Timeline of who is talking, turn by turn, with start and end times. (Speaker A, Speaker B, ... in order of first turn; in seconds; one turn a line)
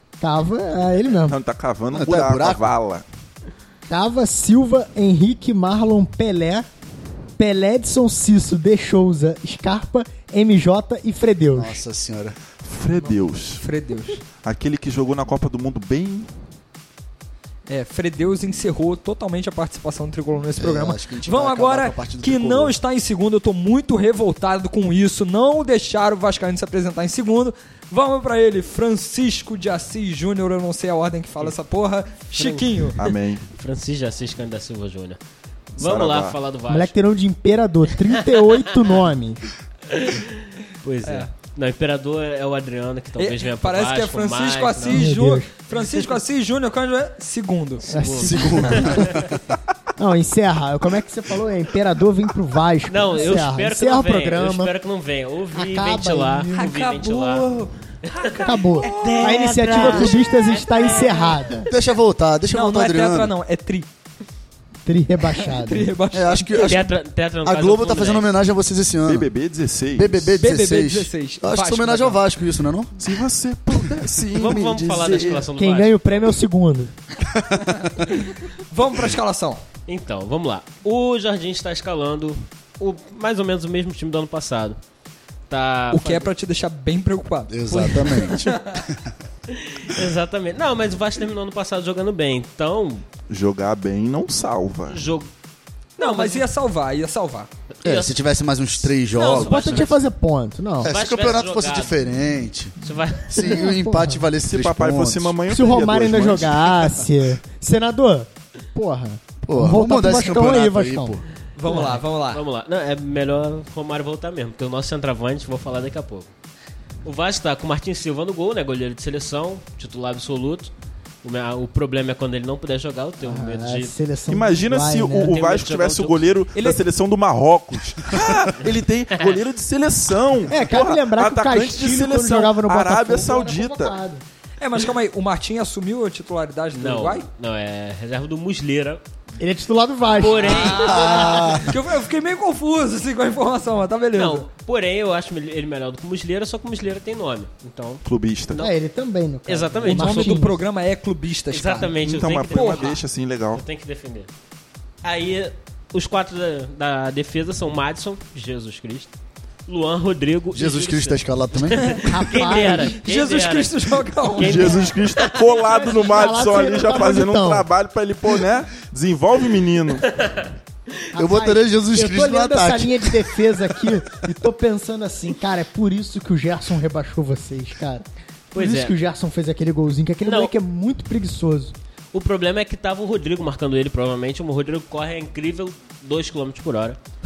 Speaker A: 0.2-1.4
Speaker B: 1.2-3.0
Speaker C: 1.9-2.7
Speaker A: 3.9-6.7
Speaker A: 7.4-11.8
Speaker C: 11.5-12.4
Speaker B: 12.6-13.6
Speaker D: 13.0-14.2
Speaker B: 14.4-16.3
Speaker D: 17.7-33.0
Speaker C: 20.6-22.8
Speaker E: 32.3-35.2
Speaker B: 33.0-33.5
Speaker B: 35.8-36.4
Speaker E: 35.8-36.9
Speaker A: 36.7-39.4
Speaker E: 38.0-38.5
Speaker E: 39.9-40.3
Speaker E: 40.8-45.1
Speaker D: 41.0-41.3
Speaker D: 43.2-47.9
Speaker A: 44.9-45.5
Speaker E: 45.7-46.1
Speaker E: 47.9-49.3
Speaker A: 47.9-49.2
Speaker C: 48.2-49.3
Speaker A: 50.0-54.7
Speaker E: 52.9-57.5
Speaker A: 55.5-56.6
Speaker D: 56.5-60.2
Speaker E: 58.0-61.7
Speaker A: 58.4-61.7
Speaker C: 61.7-63.3
Speaker D: 62.5-63.9
Speaker A: 64.8-65.9
Speaker D: 65.4-66.6
Speaker C: 66.1-66.9
Speaker E: 66.5-68.3
Speaker C: 67.4-69.3
Speaker B: 69.0-70.4
Speaker C: 70.0-72.9
Speaker D: 70.4-72.2
Speaker B: 73.0-75.5
Speaker E: 74.3-76.4
Speaker A: 75.5-76.9
Speaker C: 77.2-78.0
Speaker D: 78.7-79.6
Speaker E: 79.9-84.8
Speaker E: 85.5-86.3
Speaker D: 85.9-88.8
Speaker C: 87.5-89.1
Speaker E: 89.5-93.0
Speaker B: 93.3-95.0
Speaker E: 94.9-95.3
Speaker E: 96.0-96.5
Speaker D: 96.0-97.5
Speaker E: 97.8-98.2
Speaker C: 97.8-99.8
Speaker E: 98.8-100.0
Speaker A: 99.4-100.9
Speaker C: 100.8-105.4
Speaker E: 100.8-102.0
Speaker E: 102.8-103.5
Speaker A: 103.3-104.2
Speaker B: 104.4-106.9
Speaker A: 105.5-111.1
Speaker C: 109.4-111.2
Speaker D: 111.5-112.4
Speaker E: 111.7-116.3
Speaker E: 117.0-120.7
Speaker E: 121.2-123.9
Speaker A: 123.2-125.4
Speaker B: 124.3-134.0
Speaker E: 125.2-126.3
Speaker D: 126.5-126.8
Speaker A: 130.5-134.2
Speaker D: 134.6-137.3
Speaker E: 136.7-139.0
Speaker A: 139.4-141.6
Speaker E: 140.1-141.4
Speaker D: 140.3-144.5
Speaker C: 140.7-141.7
Speaker E: 144.1-148.7
Speaker B: 148.0-148.6
Speaker A: 148.6-150.6
Speaker E: 149.4-150.5
Speaker D: 149.8-152.9
Speaker E: 151.5-153.0
Speaker B: 152.0-153.6
Speaker E: 153.5-154.3
Speaker E: 155.0-159.1
Speaker E: 159.7-166.1
Speaker C: 160.5-162.0
Speaker D: 161.7-164.8
Speaker A: 162.0-163.0
Speaker B: 164.4-170.1
Speaker A: 166.0-167.7
Speaker E: 170.1-170.5
Speaker A: 171.1-181.7
Speaker C: 171.1-173.4
Speaker E: 178.5-178.9
Speaker E: 180.2-180.5
Speaker E: 182.1-187.0